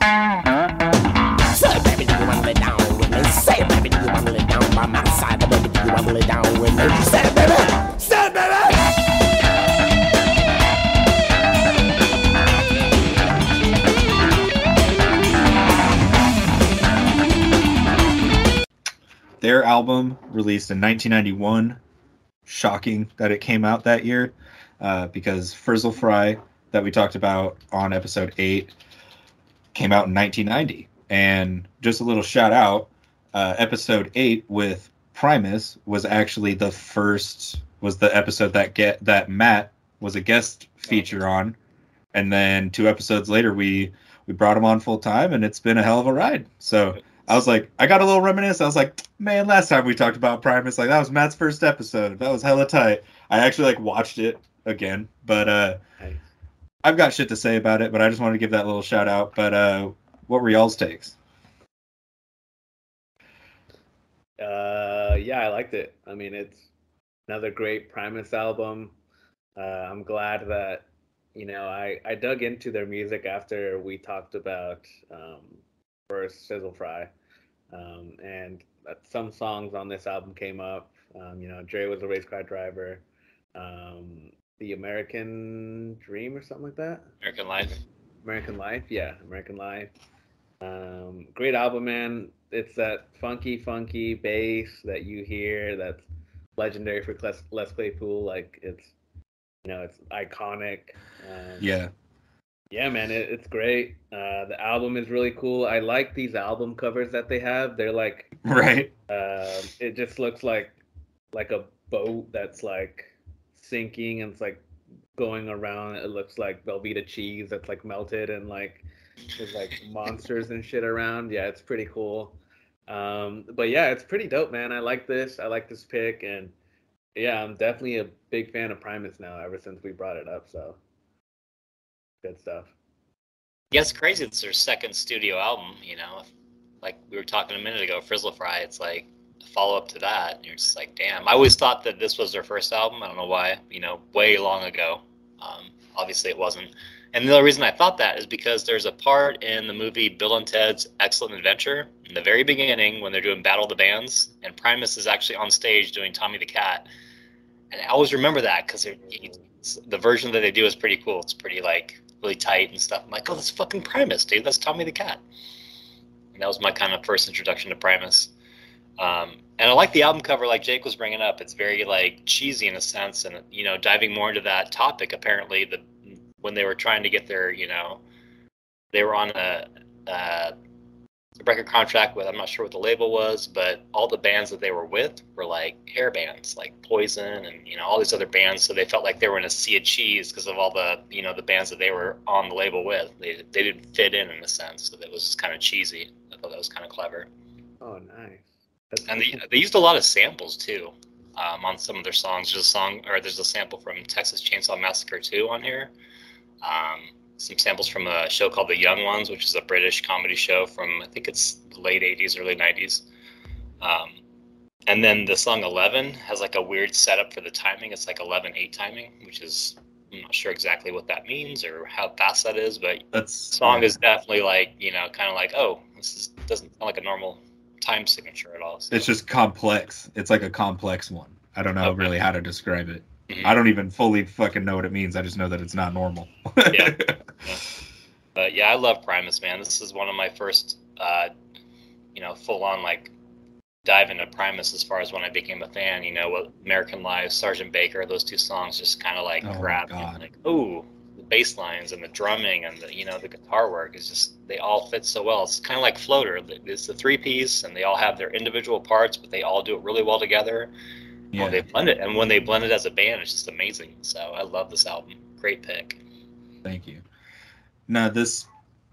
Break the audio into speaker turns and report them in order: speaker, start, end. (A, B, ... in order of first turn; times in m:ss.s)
0:01.5-0:08.7 A
0:19.4-0:21.8 B
0:22.5-0:28.7 B
0:29.7-0:41.6 B
0:42.1-0:55.8 B
0:56.0-0:56.2 C
0:56.8-1:01.2 B
1:04.4-1:06.7 C
1:07.3-1:09.0 C
1:09.6-1:17.1 C
1:17.7-1:23.0 C
1:23.6-1:27.1 C
1:27.2-1:27.8 D
1:28.2-1:29.9 C
1:30.6-1:36.0 C
1:36.6-1:38.9 C
1:39.6-1:41.7 C
1:41.6-1:41.9 B
1:42.7-1:48.3 C
1:48.4-1:48.9 B
1:49.1-1:50.8 C
1:51.3-1:54.6 C
1:55.2-1:58.8 C
1:59.4-2:02.4 C
2:02.9-2:06.5 C
2:07.2-2:10.8 C
2:12.2-2:12.7 C
2:13.7-2:16.3 D
2:16.8-2:36.9 D
2:37.7-2:45.2 D
2:46.3-2:48.3 D
2:49.0-2:55.9 D
2:56.4-2:58.0 D
2:58.9-3:00.5 D
3:01.4-3:17.3 D
3:17.8-3:19.4 C
3:19.1-3:25.9 D
3:26.6-3:33.1 D
3:33.8-3:34.2 D
3:34.9-3:49.1 D
3:43.1-3:44.0 B
3:48.9-3:57.2 B
3:51.8-3:52.1 D
3:53.3-3:53.6 D
3:56.7-3:57.6 D
3:58.4-4:01.3 D
4:02.1-4:03.1 D
4:03.8-4:20.7 D
4:09.4-4:10.2 B
4:21.3-4:21.7 B
4:21.3-4:26.0 D
4:26.6-4:27.0 B
4:27.9-4:28.5 B